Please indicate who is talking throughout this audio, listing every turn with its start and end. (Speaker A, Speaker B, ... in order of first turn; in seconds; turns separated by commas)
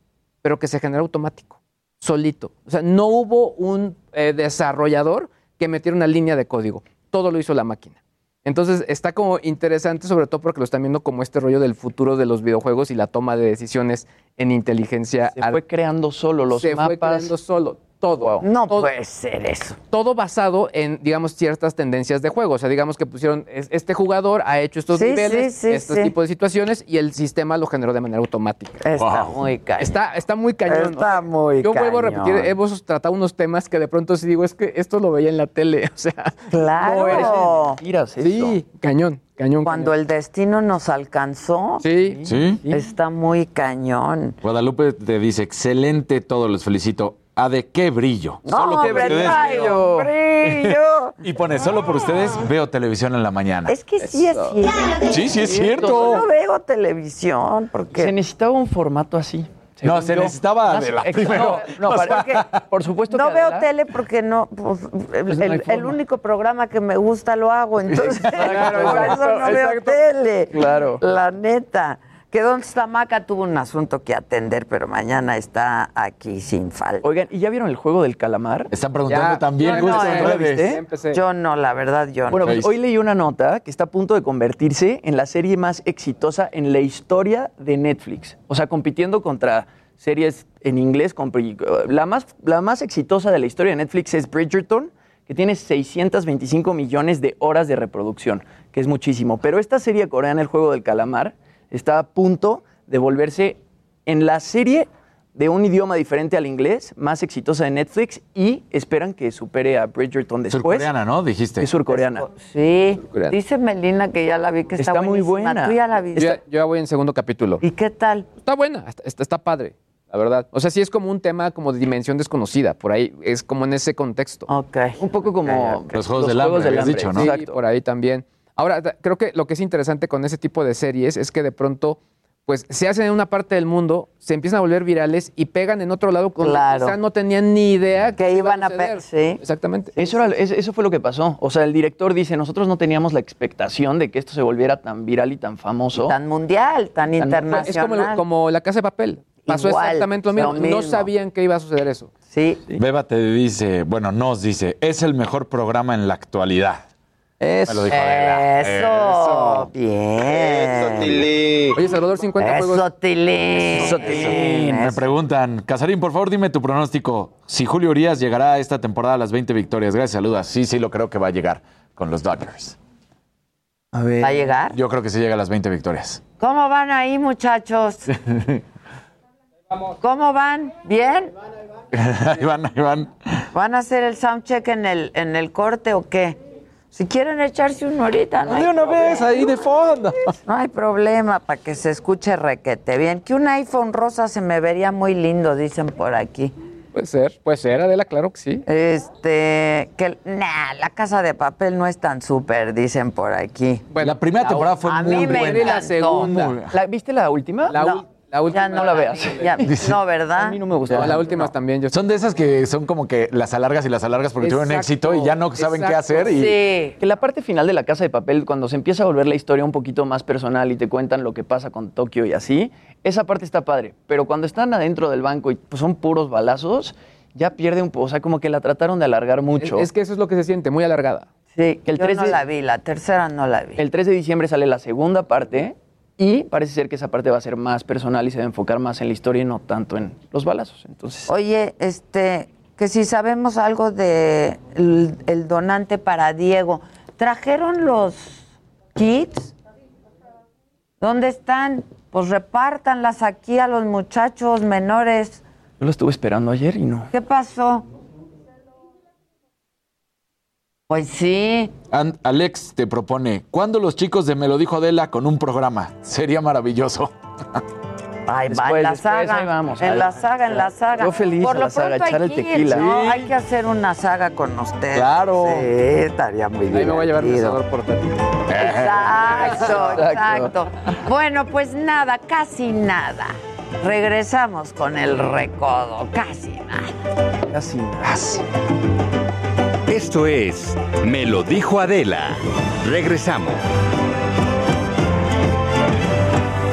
Speaker A: 0.4-15.6, Speaker B: 15.3-17.3, Speaker A: 16.5-18.9, Speaker C: 18.4-19.8, Speaker A: 19.9-28.8, Speaker C: 24.9-26.1, Speaker C: 28.8-30.0, Speaker D: 29.0-29.4, Speaker A: 29.8-37.4, Speaker C: 30.7-32.5, Speaker C: 36.5-37.8, Speaker B: 36.8-38.6, Speaker A: 38.2-39.9, Speaker C: 39.6-41.8, Speaker A: 41.8-42.2, Speaker B: 42.0-42.8, Speaker D: 42.3-42.6, Speaker C: 42.7-44.4, Speaker D: 44.4-49.7, Speaker C: 48.5-51.2, Speaker A: 48.6-50.1, Speaker D: 50.4-53.8, Speaker C: 53.7-55.2, Speaker D: 55.0-56.3, Speaker B: 55.4-56.2, Speaker C: 55.8-58.1, Speaker B: 57.9-63.7, Speaker D: 59.8-62.6, Speaker C: 61.8-62.5, Speaker C: 63.1-77.0, Speaker B: 65.3-66.0, Speaker B: 67.9-69.2, Speaker A: 68.3-70.0, Speaker B: 70.5-71.0, Speaker B: 77.0-78.7, Speaker D: 78.7-80.8, Speaker A: 79.1-81.2, Speaker B: 79.6-80.8, Speaker C: 79.7-80.3, Speaker C: 81.1-82.6, Speaker D: 82.3-82.7, Speaker B: 82.3-110.9, Speaker D: 110.5-111.7, Speaker B: 111.6-112.3, Speaker C: 111.9-116.4, Speaker A: 113.1-113.4, Speaker B: 114.8-116.2, Speaker A: 116.2-117.6, Speaker C: 117.6-118.3, Speaker A: 118.4-124.5, Speaker C: 124.5-125.0, Speaker B: 125.0-127.6, Speaker D: 125.9-127.3, Speaker A: 127.1-140.3, Speaker C: 136.4-137.0, Speaker C: 138.2-139.4, Speaker B: 140.0-146.2, Speaker C: 146.0-148.2, Speaker B: 147.2-147.7, Speaker A: 147.2-152.1, Speaker C: 149.5-151.1, Speaker C: 152.3-152.6, Speaker D: 152.8-156.8, Speaker A: 157.4-157.8, Speaker D: 157.7-159.7, Speaker C: 157.9-161.3, Speaker A: 161.8-162.9, Speaker C: 162.4-165.1, Speaker D: 163.8-172.8, Speaker A: 163.8-164.1, Speaker B: 173.9-174.4, Speaker C: 174.2-174.8, Speaker D: 174.7-176.2, Speaker C: 176.4-178.1, Speaker C: 180.0-181.3, Speaker D: 181.9-183.2, Speaker C: 183.5-186.4, Speaker C: 186.9-188.8, Speaker D: 188.5-190.2, Speaker C: 190.4-196.5, Speaker A: 196.9-198.7, Speaker C: 198.7-203.9, Speaker A: 203.9-206.6, Speaker D: 204.0-206.8, Speaker C: 204.6-206.3, Speaker B: 206.7-207.9, Speaker A: 207.7-209.6, Speaker C: 207.7-210.6, Speaker B: 208.7-209.6, Speaker D: 209.6-210.0, Speaker B: 210.4-211.5, Speaker A: 210.9-211.9, Speaker D: 211.9-216.6, Speaker A: 214.4-216.4, Speaker C: 216.3-217.0, Speaker B: 217.0-229.9, Speaker A: 229.6-231.3, Speaker C: 231.5-233.8, Speaker B: 231.9-232.4, Speaker B: 233.8-241.3, Speaker C: 241.3-249.5, Speaker C: 251.0-255.4, Speaker B: 255.8-257.1, Speaker C: 257.1-257.9, Speaker C: 260.9-261.7, Speaker D: 261.9-267.1, Speaker C: 268.3-277.6, Speaker B: 268.5-273.0, Speaker D: 272.8-273.2, Speaker D: 274.9-275.7, Speaker A: 276.7-278.2, Speaker D: 278.5-279.1, Speaker C: 278.6-286.9, Speaker A: 279.4-279.9, Speaker B: 279.6-280.5, Speaker B: 287.5-288.4, Speaker E: 289.9-293.6